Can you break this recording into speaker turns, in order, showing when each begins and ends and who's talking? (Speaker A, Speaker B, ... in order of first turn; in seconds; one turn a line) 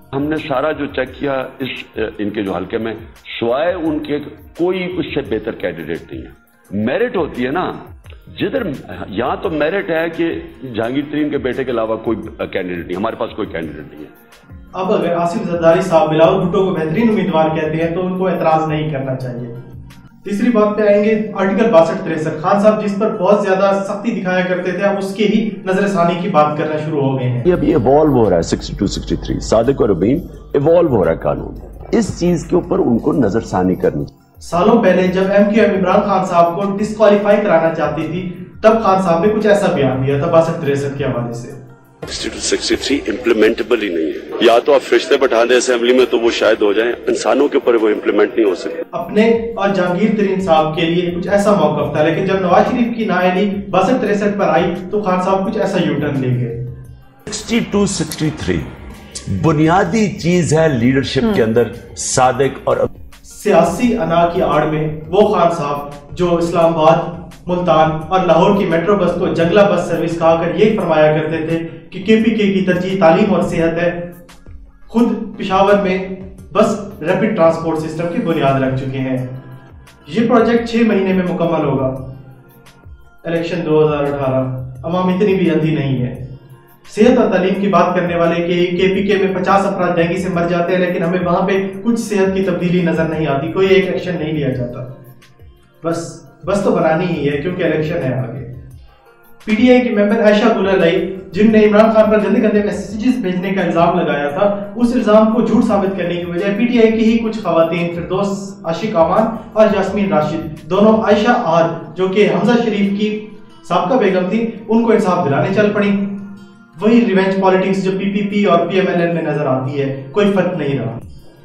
Speaker A: 0.1-7.8
Speaker A: 8.4-14.1
Speaker B: 14.8-19.5
Speaker B: 20.2-27.5
Speaker A: 27.5-34.1
Speaker B: 34.4-41.6
Speaker A: 42.1-48.8
Speaker B: 48.9-56.6
Speaker A: 57.3-58.6
Speaker A: 59.3-62.9
Speaker B: 63.2-74.1
Speaker B: 74.9-79.3
Speaker B: 80.1-82.0
Speaker B: 83.2-86.2
Speaker B: 86.9-94.9
Speaker B: 95.8-98.5
Speaker B: 99.5-121.0